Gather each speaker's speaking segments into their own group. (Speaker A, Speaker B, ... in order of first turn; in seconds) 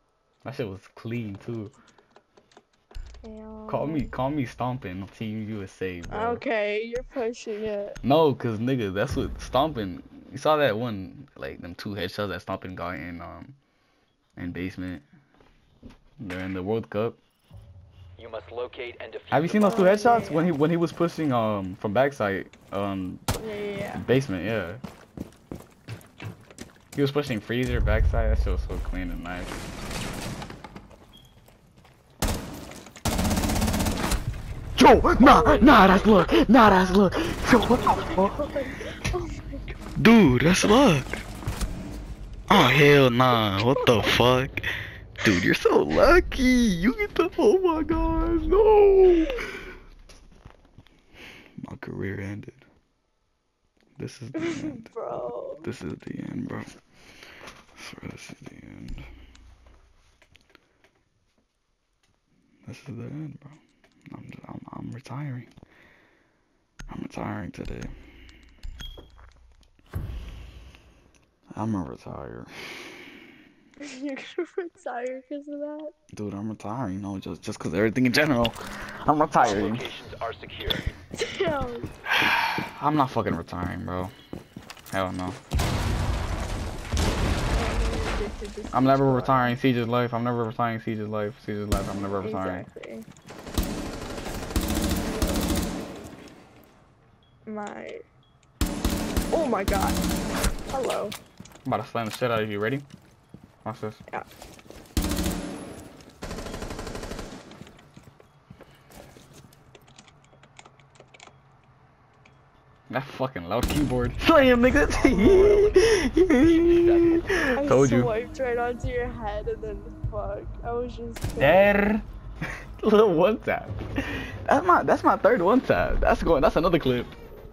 Speaker A: 0.4-1.7, 3.7-6.5, 8.0-13.6, 14.4-15.0, 16.2-17.2, 19.3-23.3, 23.9-24.8, 26.9-29.6, 34.8-38.4, 40.0-41.2, 42.5-44.6, 45.2-49.4, 51.6-52.6, 54.0-54.9, 55.6-56.7, 57.8-59.1, 62.7-65.5, 66.9-67.9, 71.5-72.5, 76.1-79.9, 82.2-84.1, 84.9-85.4, 88.7-92.7, 101.7-102.9, 103.6-104.0, 112.9-118.1, 121.4-122.0, 122.8-123.7, 124.5-127.2
Speaker B: 3.2-4.1, 6.1-8.0, 19.6-20.5, 23.4-24.1, 35.2-36.1, 37.7-39.8, 43.8-44.1, 54.4-55.7, 73.8-75.9, 81.2-81.9, 87.5-89.6, 92.2-93.1, 95.0-95.7, 97.5-98.0, 99.3-100.0, 100.7-101.2, 117.6-121.8
Speaker C: 18.2-19.9, 79.4-80.9, 114.9-117.3